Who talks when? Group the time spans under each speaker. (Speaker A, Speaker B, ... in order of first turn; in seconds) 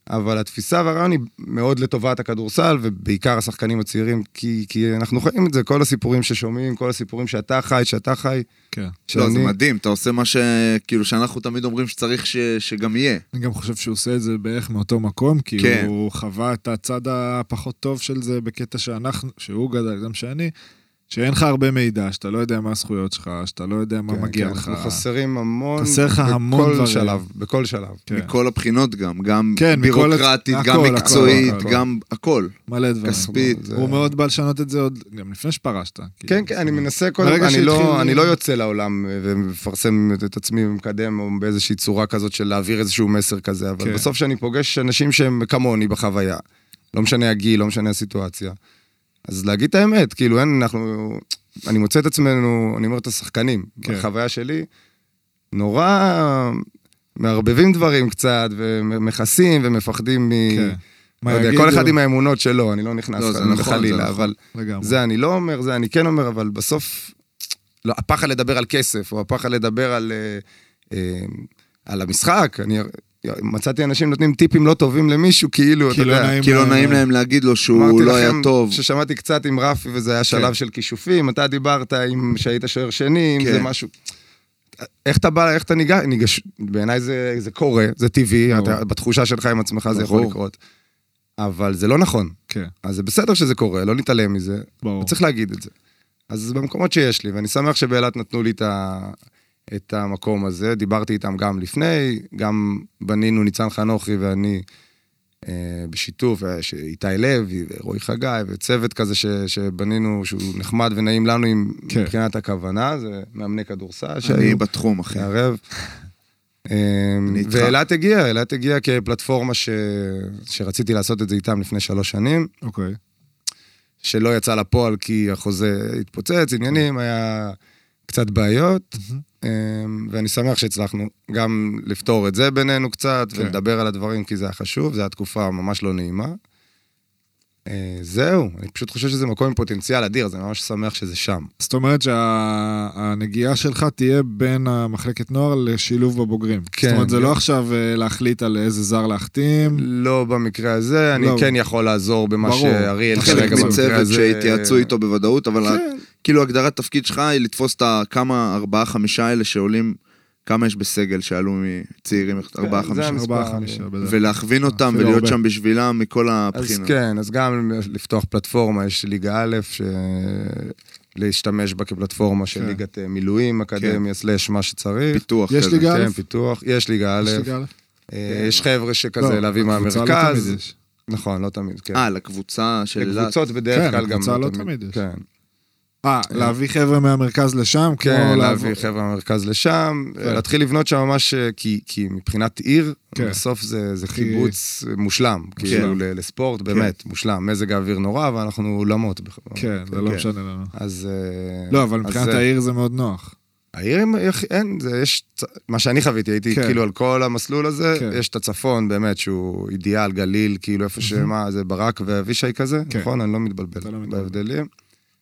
Speaker A: 0.1-8.5, 9.1-9.6, 24.1-28.1, 31.0-31.8, 33.1-34.1, 36.3-46.4, 46.9-48.6, 49.3-54.7, 55.5-56.6, 57.2-67.1, 67.8-76.4, 77.7-83.9, 84.8-90.6, 91.4-95.7, 96.3-99.2, 99.7-104.6, 105.5-114.6, 115.1-115.6, 116.7-122.5, 124.0-127.6, 128.1-136.4, 137.7-141.5, 146.7-147.4, 149.7-154.9, 155.6-156.0, 162.6-163.8, 166.5-175.2, 175.8-177.5, 178.1-180.6, 181.1-182.1, 183.0-185.2, 188.0-200.0, 200.7-202.4, 203.8-214.7
Speaker B: 8.7-9.0, 13.3-20.5, 21.1-25.0, 25.8-27.2, 29.6-31.7, 32.7-38.4, 43.8-44.1, 60.5-62.0, 64.1-65.0, 75.9-77.0, 88.5-88.8, 94.8-95.1, 111.9-112.1, 122.6-123.0, 129.0-129.2, 141.6-149.8, 151.2-151.5, 152.4-153.8, 163.0-164.2, 164.7-165.4, 172.5-172.8, 175.5-176.2, 177.2-177.7, 179.2-180.7, 183.7-185.0, 186.0-188.8, 193.2-193.4, 194.1-194.6, 195.6-196.0, 199.6-200.7, 201.7-203.3, 206.5-206.8, 207.9-208.2, 211.0-211.3, 213.8-214.4
Speaker C: 9.1-13.2, 15.6-15.9, 28.1-32.5, 33.0-33.6, 63.2-64.2, 76.4-78.8, 83.4-83.7, 89.9-90.4, 114.3-115.3, 117.3-117.8, 153.2-163.2, 164.0-166.9, 175.1-175.9, 178.3-178.7, 181.9-183.3